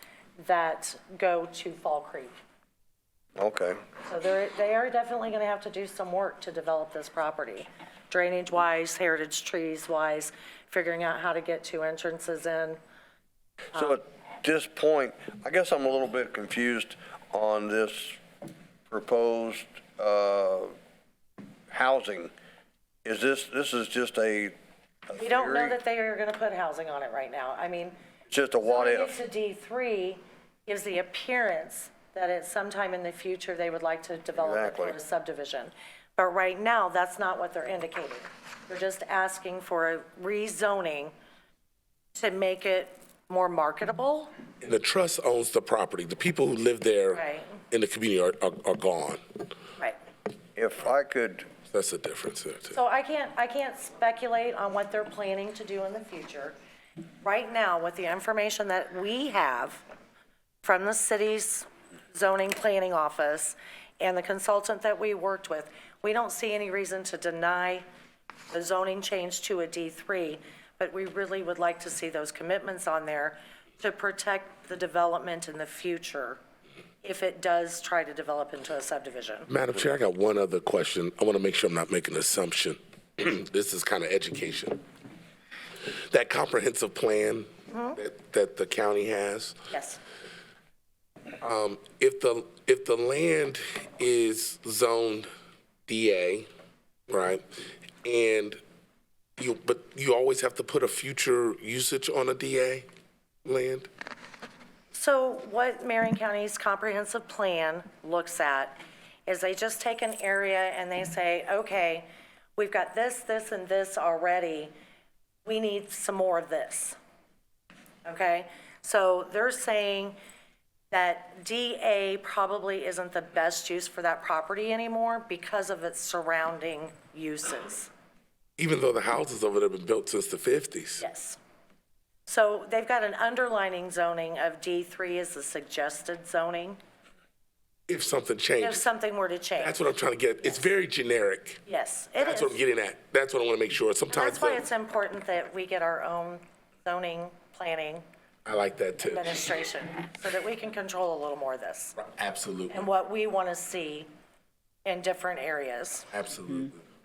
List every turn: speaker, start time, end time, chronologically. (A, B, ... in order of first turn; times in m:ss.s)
0:00.4-0:02.3 A
0:03.4-0:03.8 B
0:04.0-0:12.8 A
0:13.7-0:18.2 B
0:18.9-0:20.7 B
0:21.7-0:22.3 B
0:23.0-0:24.5 B
0:25.1-0:25.8 B
0:25.2-0:28.0 A
0:28.3-0:29.2 B
0:28.6-0:41.1 A
0:34.4-0:35.0 B
0:42.1-0:44.3 A
0:44.6-0:49.2 C
0:47.1-0:47.5 A
0:50.6-0:51.5 B
0:51.7-0:52.8 C
0:52.7-0:56.6 A
0:57.2-0:59.8 A
1:00.6-1:07.8 A
1:08.5-1:16.4 A
1:17.0-1:19.5 A
1:19.5-1:24.8 C
1:26.1-1:29.6 C
1:27.7-1:28.0 A
1:29.7-1:30.0 A
1:31.4-1:35.3 C
1:35.9-1:36.5 C
1:37.1-1:37.4 C
1:38.0-1:38.6 C
1:39.4-1:42.8 C
1:43.4-1:43.9 C
1:44.9-1:54.7 A
1:55.4-1:57.0 A
1:58.0-2:00.2 A
2:00.9-2:07.9 A
2:08.6-2:11.0 C
2:11.0-2:11.4 A
2:12.3-2:16.8 A
2:17.9-2:18.8 C
2:18.6-2:19.8 A
2:19.6-2:21.6 C
2:21.6-2:22.6 A
2:22.2-2:24.6 C
2:24.1-2:28.0 A
2:28.4-2:29.3 C
2:29.0-2:32.0 A
2:32.0-2:32.8 C
2:32.7-2:34.1 A
2:34.8-2:36.1 A
2:36.1-2:36.8 C